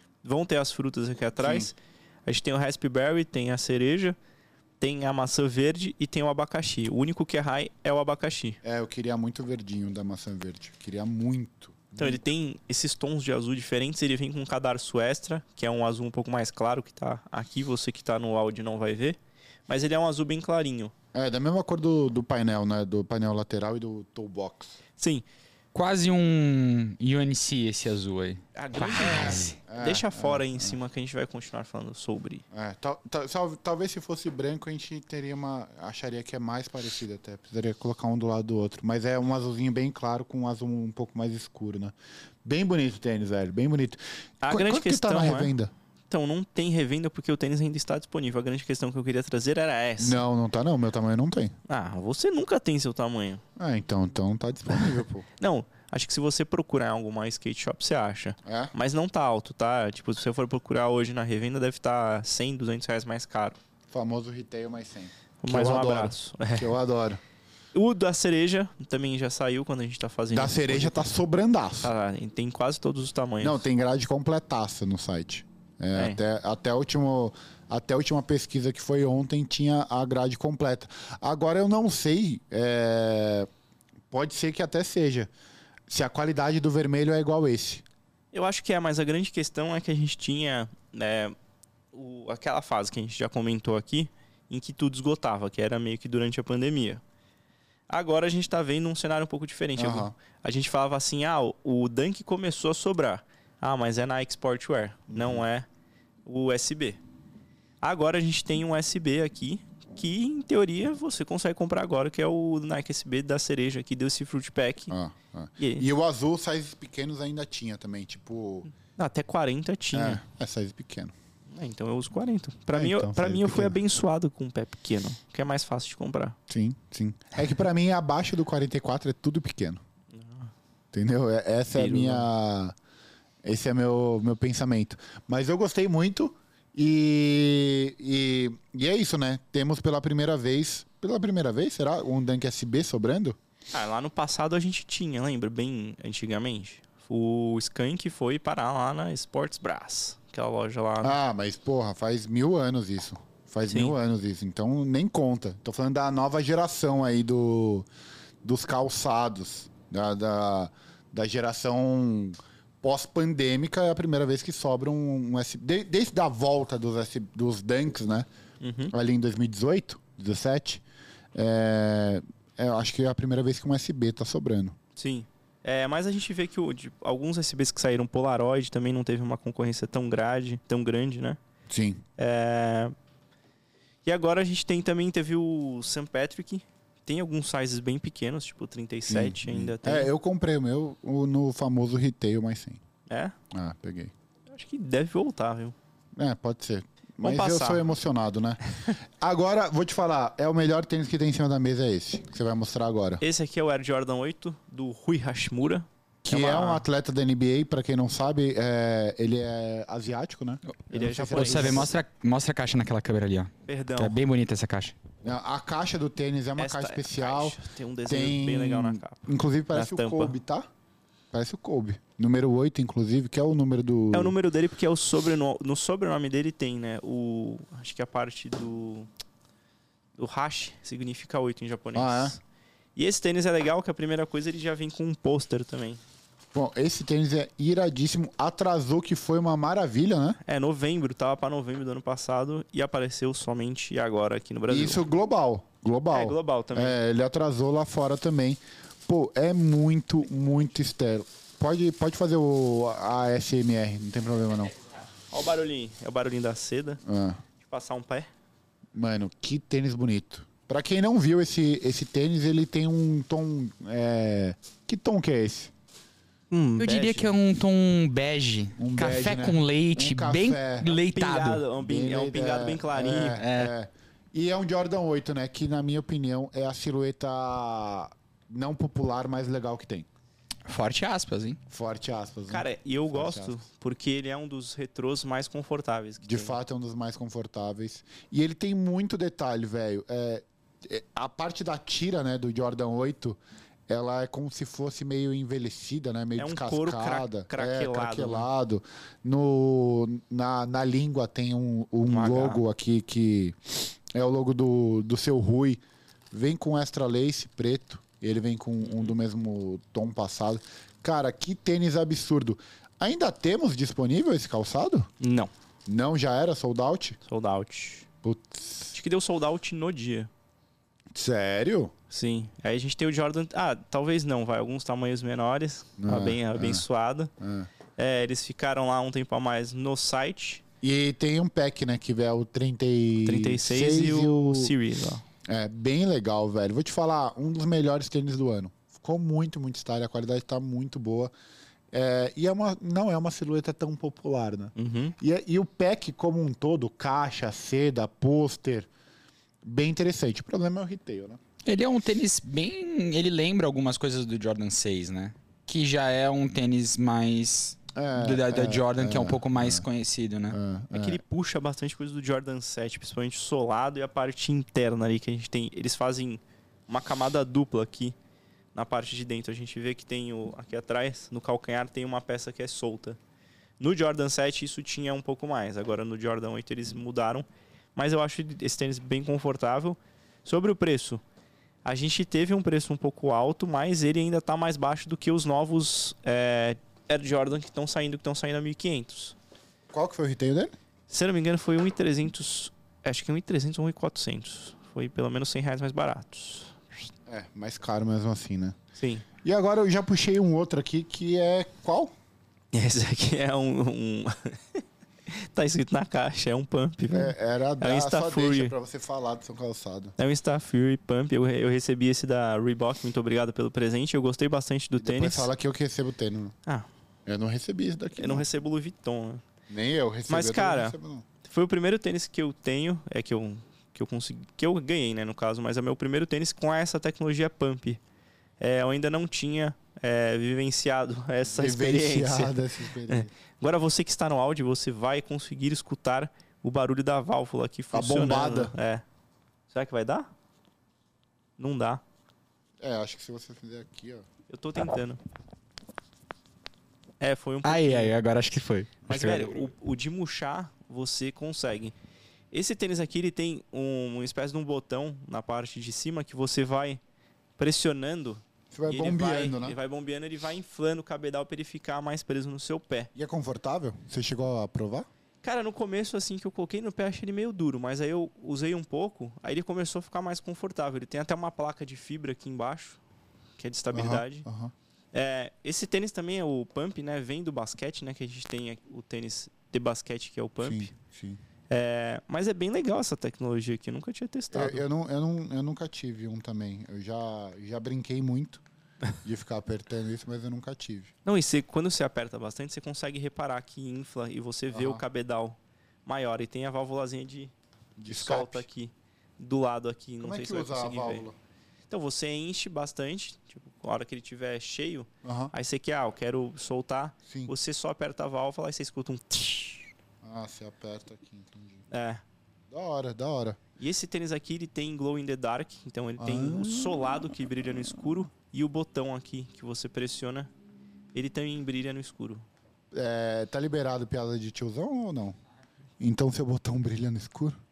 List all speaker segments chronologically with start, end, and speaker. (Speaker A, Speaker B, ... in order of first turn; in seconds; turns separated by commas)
Speaker A: 0.2-4.2, Speaker B: 1.4-1.7, Speaker A: 4.8-8.6, Speaker B: 8.6-12.2, Speaker A: 12.0-20.9, Speaker B: 21.1-24.7, Speaker A: 25.0-25.2, Speaker C: 25.7-29.6, Speaker A: 28.6-32.4, Speaker B: 29.0-30.8, Speaker B: 32.5-45.7, Speaker A: 44.4-45.5, Speaker A: 46.1-50.2, Speaker B: 50.0-51.5, Speaker A: 51.7-53.4, Speaker B: 53.6-55.3, Speaker A: 55.4-63.6, Speaker B: 58.4-58.7, Speaker B: 63.9-67.2, Speaker A: 65.4-66.7, Speaker A: 67.7-71.1, Speaker B: 70.3-71.9, Speaker A: 71.8-73.6, Speaker B: 73.4-83.5, Speaker A: 75.9-76.2, Speaker B: 84.1-85.3, Speaker B: 85.9-87.8, Speaker A: 88.3-91.3, Speaker A: 91.9-97.0, Speaker A: 97.9-105.7, Speaker B: 99.8-100.1, Speaker B: 105.1-105.4, Speaker A: 106.2-107.0, Speaker A: 107.8-114.9, Speaker B: 114.9-118.7, Speaker A: 115.6-115.8, Speaker A: 118.9-120.2, Speaker B: 119.9-121.1, Speaker A: 121.5-126.3, Speaker B: 122.7-123.8, Speaker B: 126.5-129.8, Speaker A: 130.1-130.5, Speaker B: 130.9-132.7, Speaker A: 131.7-132.3, Speaker B: 133.4-143.4, Speaker A: 143.7-151.2, Speaker B: 151.0-157.9, Speaker A: 153.7-153.9, Speaker B: 158.4-168.3, Speaker A: 168.6-168.9, Speaker B: 168.9-170.8, Speaker B: 171.3-174.7, Speaker A: 174.9-181.4, Speaker B: 181.7-182.0, Speaker A: 182.2-182.9, Speaker A: 184.0-190.1, Speaker B: 189.1-192.8, Speaker A: 193.1-193.3, Speaker B: 193.5-194.1, Speaker A: 194.5-195.7, Speaker B: 196.2-198.6, Speaker A: 197.2-197.9, Speaker B: 199.2-203.2, Speaker A: 203.2-206.8, Speaker B: 206.2-211.9, Speaker A: 210.9-211.9, Speaker C: 211.2-214.9, Speaker A: 213.7-214.2, Speaker B: 215.2-220.7, Speaker A: 216.6-220.3, Speaker B: 221.3-224.3, Speaker A: 224.1-229.1, Speaker A: 230.2-232.4, Speaker B: 231.9-232.4, Speaker A: 232.9-236.0, Speaker B: 236.5-240.4, Speaker A: 240.4-245.0, Speaker B: 244.7-254.7, Speaker A: 246.1-247.0, Speaker A: 255.3-257.0, Speaker B: 257.1-257.4, Speaker A: 257.6-258.3, Speaker B: 258.9-265.7, Speaker A: 266.5-267.4, Speaker C: 266.8-271.6, Speaker B: 268.8-270.9, Speaker A: 270.8-273.4, Speaker B: 271.8-280.1, Speaker C: 273.3-273.7, Speaker C: 280.6-281.6, Speaker B: 281.7-283.6, Speaker A: 282.5-286.6, Speaker B: 286.2-315.1, Speaker A: 296.4-298.5, Speaker A: 302.1-302.6, Speaker A: 315.2-315.5, Speaker B: 315.9-317.2, Speaker A: 317.2-318.1, Speaker B: 318.2-318.9, Speaker A: 318.9-320.3, Speaker B: 321.1-321.9, Speaker A: 322.1-327.3, Speaker B: 326.0-326.8, Speaker B: 327.4-327.7, Speaker A: 328.0-330.6, Speaker B: 330.8-334.7, Speaker A: 333.2-335.2, Speaker B: 335.5-341.3, Speaker B: 341.9-348.9, Speaker A: 344.8-345.1, Speaker B: 349.6-351.4, Speaker C: 351.6-360.6, Speaker B: 357.9-359.9, Speaker B: 360.5-361.2, Speaker A: 360.9-368.1, Speaker A: 368.7-373.2, Speaker A: 373.8-381.2, Speaker A: 381.8-389.4, Speaker B: 389.9-390.7, Speaker A: 391.1-397.1, Speaker B: 397.3-398.8, Speaker A: 398.9-399.2, Speaker B: 399.4-402.1, Speaker A: 402.7-408.7, Speaker B: 407.1-410.1, Speaker A: 410.2-415.5, Speaker B: 414.9-416.5, Speaker B: 417.2-418.5, Speaker A: 418.1-419.4, Speaker B: 419.7-421.2, Speaker A: 420.3-428.0, Speaker A: 428.6-439.0, Speaker B: 431.5-433.3, Speaker B: 437.9-438.7, Speaker A: 439.7-440.3, Speaker A: 441.6-442.0, Speaker B: 442.8-444.2, Speaker A: 444.5-445.2, Speaker A: 447.2-448.1, Speaker C: 447.6-449.7, Speaker A: 449.1-451.9, Speaker A: 452.5-457.0, Speaker A: 457.6-463.1, Speaker B: 458.7-459.8, Speaker B: 463.1-465.1, Speaker A: 465.4-473.0, Speaker A: 473.6-474.4, Speaker B: 473.9-474.7, Speaker A: 475.1-480.9, Speaker B: 480.6-481.4, Speaker A: 481.7-484.8, Speaker B: 484.5-488.6, Speaker B: 489.2-491.1, Speaker A: 491.2-497.5, Speaker B: 494.7-495.0, Speaker B: 497.9-498.6, Speaker A: 498.1-501.3, Speaker B: 500.2-501.3, Speaker A: 501.9-509.9, Speaker B: 505.2-505.5, Speaker B: 507.3-507.5, Speaker B: 510.2-511.9, Speaker A: 511.9-512.2, Speaker B: 512.7-513.6, Speaker A: 513.8-520.5, Speaker B: 516.2-517.3, Speaker A: 521.1-522.4, Speaker B: 522.9-525.4, Speaker B: 526.0-527.6